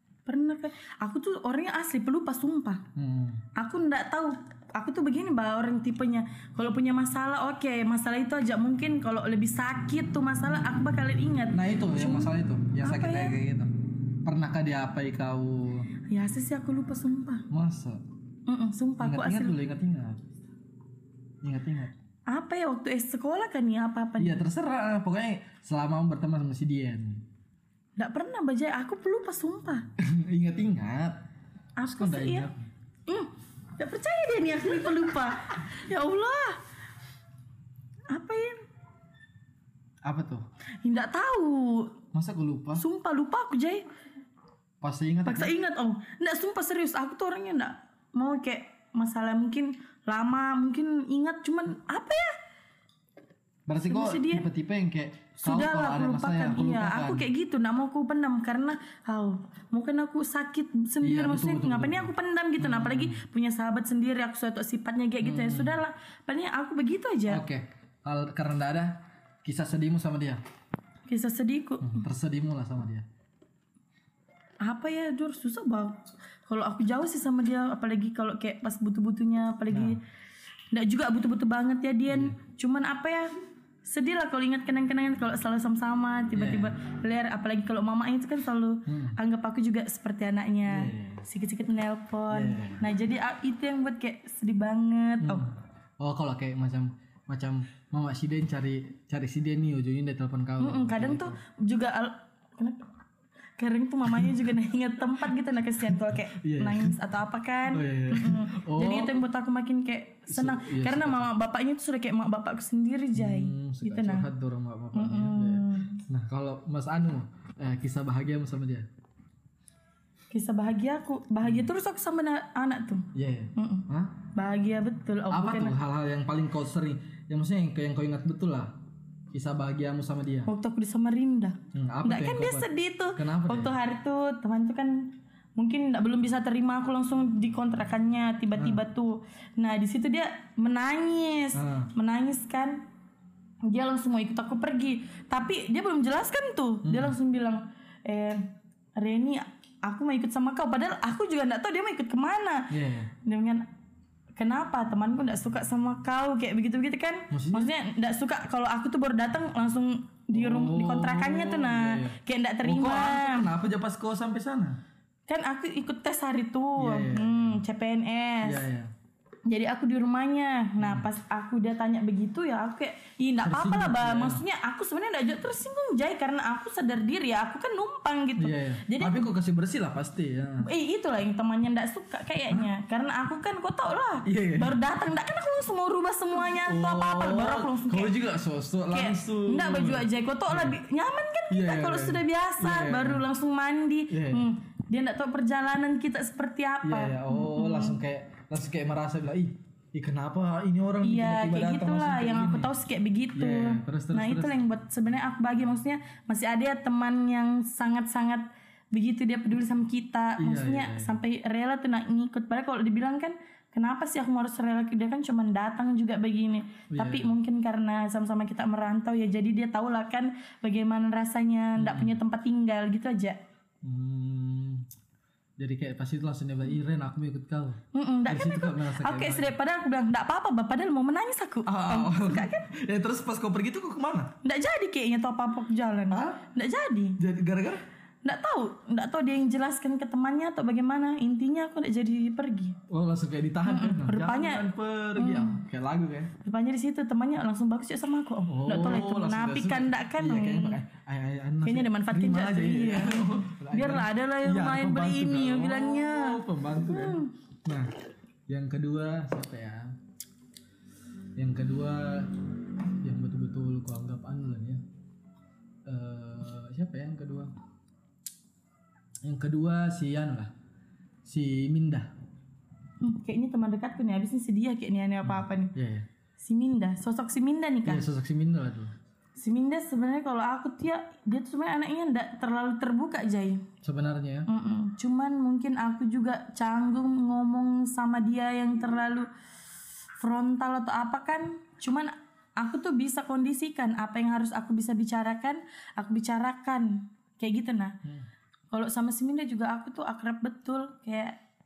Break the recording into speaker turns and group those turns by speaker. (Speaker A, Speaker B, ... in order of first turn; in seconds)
Speaker A: 0.3-2.8, 3.5-13.4, 16.1-17.4, 18.5-19.6, 22.3-24.4, 28.0-29.9, 31.8-32.5, 33.1-36.6, 38.1-38.6, 40.8-42.0, 42.8-43.8, 45.2-52.3, 53.8-54.5, 55.4-67.4, 71.1-72.0, 74.6-80.0, 80.7-83.3, 83.8-95.4, 100.6-102.8, 103.6-114.2, 114.9-116.0, 120.3-125.8, 130.4-142.8, 143.6-148.4, 149.0-153.7, 154.3-163.5, 165.3-168.6, 169.5-179.3, 180.6-188.2, 188.9-198.0, 201.0-223.4, 227.9-232.7, 234.4-237.2, 238.2-242.8, 243.6-245.6, 246.4-250.8, 251.6-257.3, 273.0-275.7, 276.4-278.0, 279.4-283.6, 284.5-289.3, 290.2-298.0, 298.7-301.4
Speaker B: 3.0-3.4, 11.5-13.7, 14.2-15.9, 17.5-18.0, 19.0-20.2, 21.4-21.9, 24.2-27.2, 30.0-31.2, 31.9-32.6, 40.0-40.4, 42.1-42.8, 44.8-45.5, 53.7-57.3, 61.0-63.2, 65.2-65.8, 67.3-70.4, 71.8-73.0, 79.7-80.0, 82.1-82.3, 86.3-86.7, 88.9-89.2, 90.7-91.2, 92.3-92.8, 95.2-101.4, 105.9-107.0, 107.7-109.2, 110.3-111.3, 113.1-118.9, 121.4-121.7, 123.1-124.2, 125.3-128.8, 129.3-130.5, 131.7-133.8, 138.6-138.8, 141.5-141.9, 146.8-147.2, 152.7-153.1, 157.3-157.7, 160.3-164.8, 166.8-167.6, 168.4-168.9, 170.8-171.1, 173.4-174.4, 178.4-180.7, 184.2-184.8, 186.6-190.8, 191.5-193.2, 194.1-194.5, 196.8-202.7, 203.3-204.7, 210.4-211.2, 216.9-217.3, 221.8-222.2, 223.8-224.8, 225.6-229.5, 231.7-234.3, 236.1-236.4, 237.2-237.8, 242.9-246.3, 248.4-257.9, 258.5-260.0, 261.4-262.4, 263.0-264.8, 265.9-267.5, 269.2-270.5, 271.2-272.1, 275.2-276.1, 277.8-278.9, 283.8-284.5